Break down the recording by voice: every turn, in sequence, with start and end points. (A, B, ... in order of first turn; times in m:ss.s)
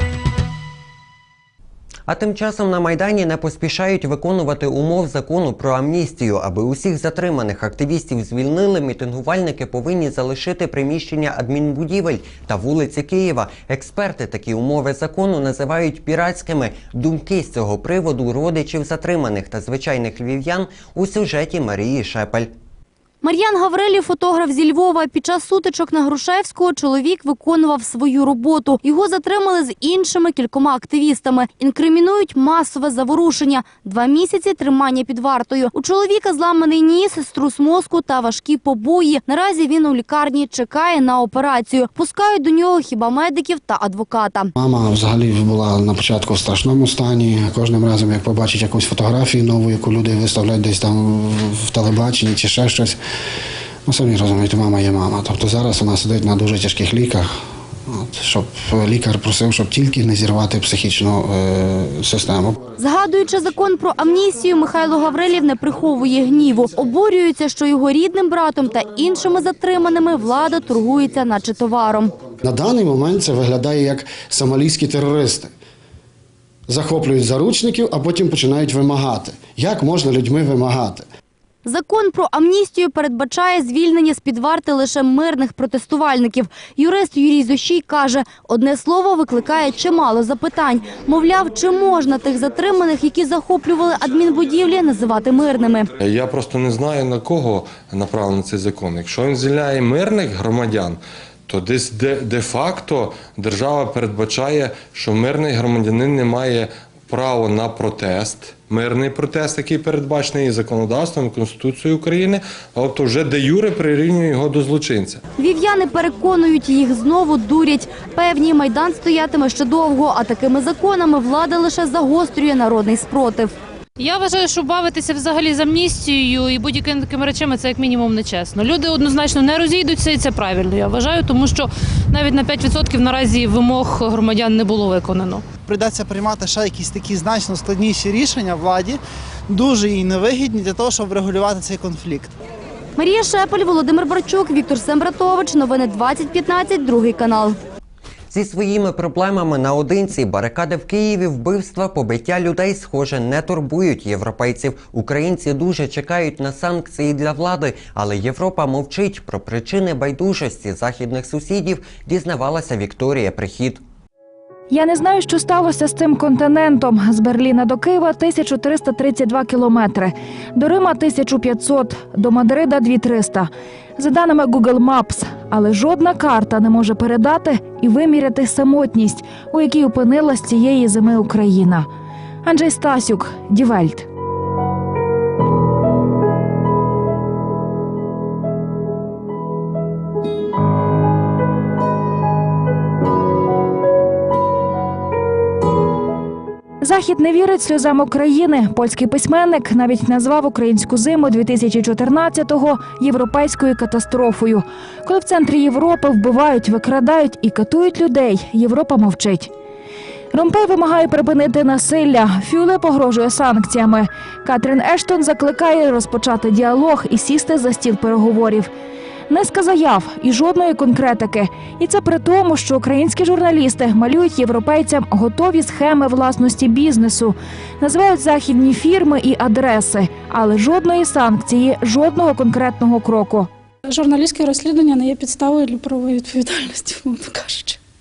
0:02.1-0:22.5 A
0:23.2-0:44.5 B
0:44.6-0:53.0 C
0:53.9-0:57.3 C
0:57.9-1:02.6 C
1:02.8-1:12.2 B
1:12.4-1:15.5 C
1:16.7-1:21.1 C
1:21.6-1:35.9 B
1:36.0-1:55.2 D
1:55.4-2:03.5 B
2:04.0-2:15.4 E
2:15.7-2:19.0 F
2:19.5-2:22.3 F
2:23.0-2:27.6 B
2:28.3-2:43.8 A
2:44.7-3:01.9 G
3:02.4-3:04.1 G
3:16.8-3:29.5 G
3:30.3-3:38.7 G
3:39.3-3:53.5 G
3:53.8-3:57.8 H